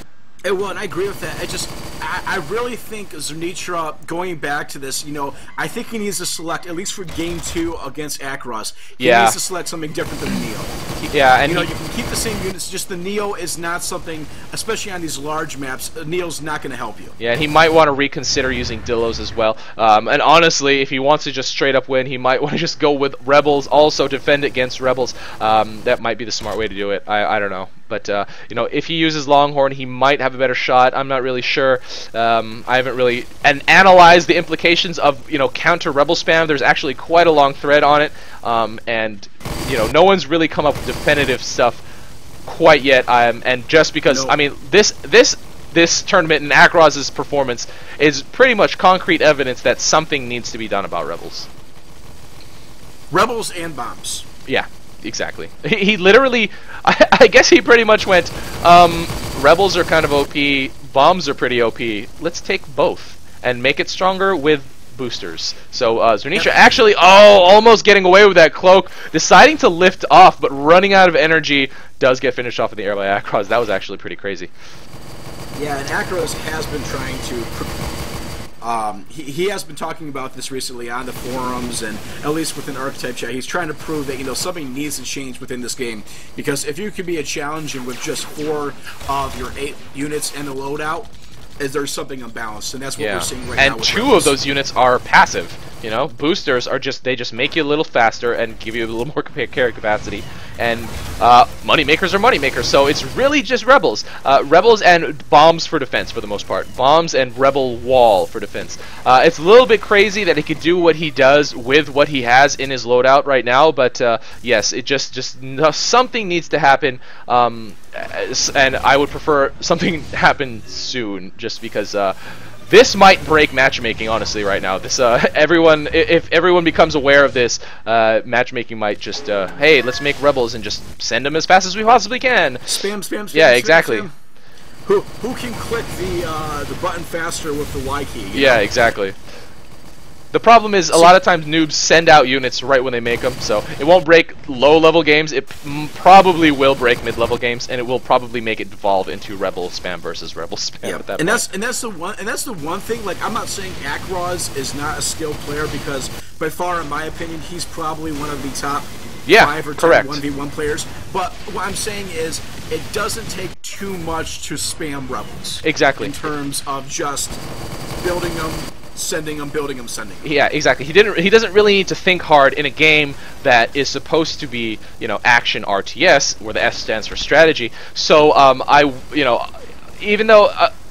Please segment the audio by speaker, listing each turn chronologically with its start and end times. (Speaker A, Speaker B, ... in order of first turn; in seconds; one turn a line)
Speaker A: 0.4-10.8
Speaker B: 9.0-9.4
Speaker B: 11.0-11.7
Speaker A: 11.4-17.1
Speaker B: 17.2-41.8
Speaker B: 42.4-51.5
Speaker A: 44.1-44.4
Speaker A: 53.1-54.2
Speaker B: 54.5-74.5
Speaker A: 75.5-77.7
Speaker A: 78.6-94.3
Speaker B: 93.0-132.7
Speaker A: 132.7-134.1
Speaker B: 133.3-134.1
Speaker A: 134.8-138.6
Speaker B: 138.3-139.2
Speaker B: 140.3-151.5
Speaker A: 150.8-167.4
Speaker B: 159.2-160.2
Speaker B: 165.6-166.2
Speaker A: 167.9-170.3
Speaker B: 170.2-179.5
Speaker B: 180.0-180.7